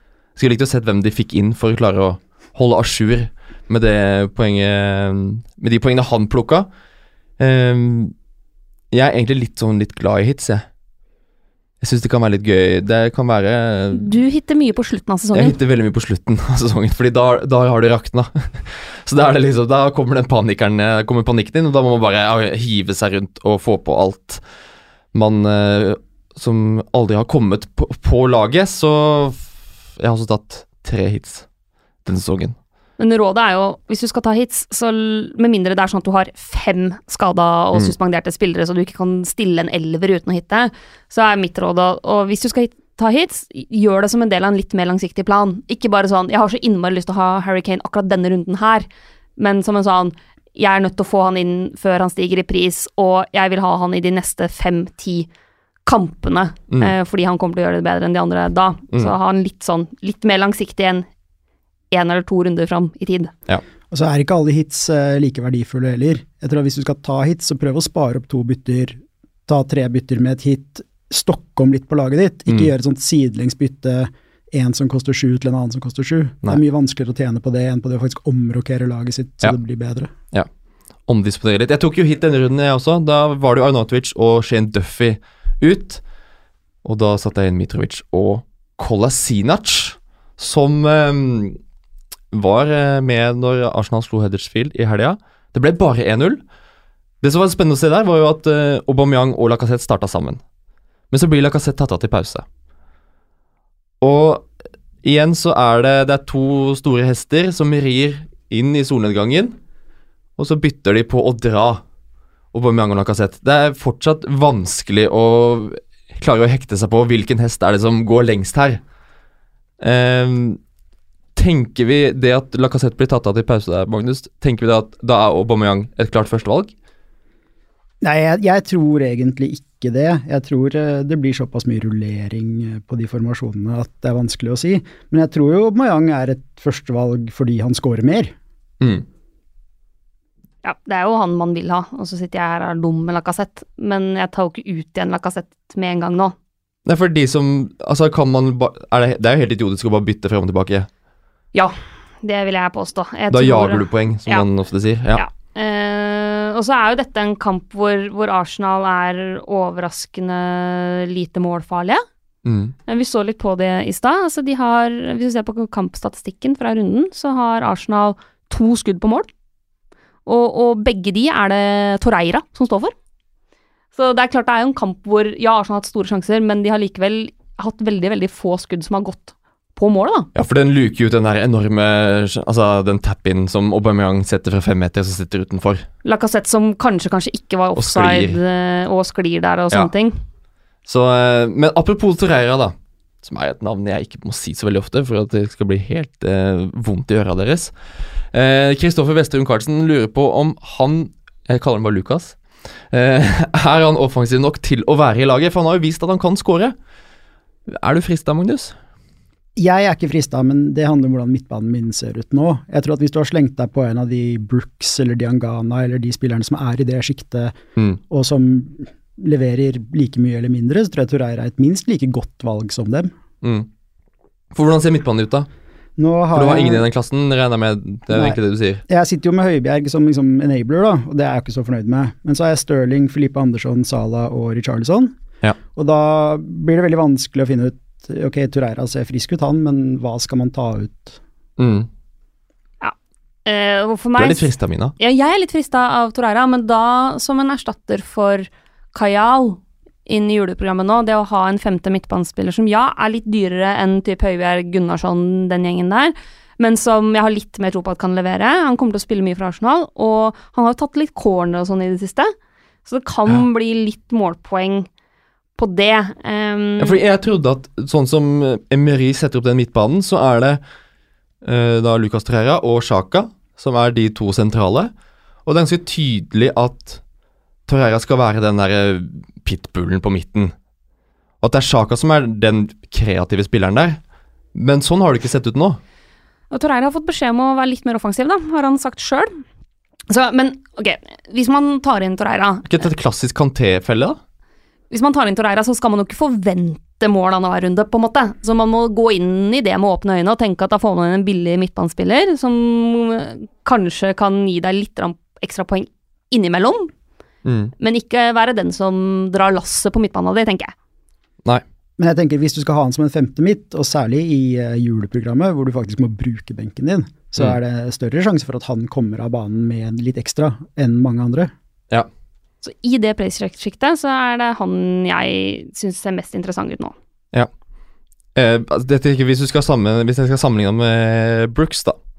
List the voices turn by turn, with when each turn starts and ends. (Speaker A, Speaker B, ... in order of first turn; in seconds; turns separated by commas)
Speaker A: 0.4-6.7, Speaker A: 7.4-8.1, Speaker A: 8.9-10.7, Speaker A: 11.8-14.2, Speaker B: 13.9-15.6, Speaker A: 15.3-24.4, Speaker A: 25.1-31.5, Speaker A: 32.0-32.6, Speaker B: 33.0-48.9, Speaker B: 49.4-55.3, Speaker B: 55.9-61.1, Speaker B: 61.9-63.3, Speaker C: 63.9-80.1, Speaker A: 81.1-86.0, Speaker A: 86.8-91.6, Speaker A: 92.3-96.4, Speaker A: 97.2-100.4, Speaker A: 101.1-102.5, Speaker A: 104.0-104.5, Speaker A: 105.0-109.5, Speaker A: 110.4-111.8, Speaker A: 112.5-118.8, Speaker A: 119.8-120.6, Speaker A: 121.4-126.7, Speaker C: 128.0-138.3, Speaker A: 138.8-139.1, Speaker B: 140.6-146.3, Speaker A: 146.9-150.9, Speaker B: 151.5-154.5, Speaker A: 153.3-155.2, Speaker B: 155.1-162.0, Speaker A: 162.4-162.8, Speaker B: 162.9-169.3, Speaker B: 170.3-172.9, Speaker B: 173.9-180.3, Speaker A: 180.3-185.9, Speaker B: 186.1-190.2, Speaker A: 187.8-188.4, Speaker A: 190.9-197.7, Speaker A: 198.3-202.4, Speaker A: 202.9-206.8, Speaker A: 207.7-208.8, Speaker C: 209.6-217.6, Speaker C: 218.1-223.1, Speaker A: 223.4-223.7, Speaker A: 224.5-225.5, Speaker C: 226.0-226.8, Speaker A: 226.3-228.8, Speaker C: 228.1-235.2, Speaker C: 235.8-241.2, Speaker A: 241.6-241.9, Speaker B: 243.5-262.3, Speaker A: 244.2-244.9, Speaker B: 262.9-264.9, Speaker B: 265.6-267.0, Speaker A: 266.8-270.6, Speaker A: 271.4-274.9, Speaker A: 275.5-277.0, Speaker A: 277.7-280.5, Speaker A: 281.4-284.0, Speaker A: 284.5-285.8, Speaker B: 286.5-289.3, Speaker B: 290.1-292.7, Speaker A: 292.7-294.2, Speaker B: 294.9-306.9, Speaker A: 307.4-307.7, Speaker B: 307.8-310.7, Speaker C: 312.0-321.5, Speaker B: 322.6-326.9, Speaker A: 328.4-332.0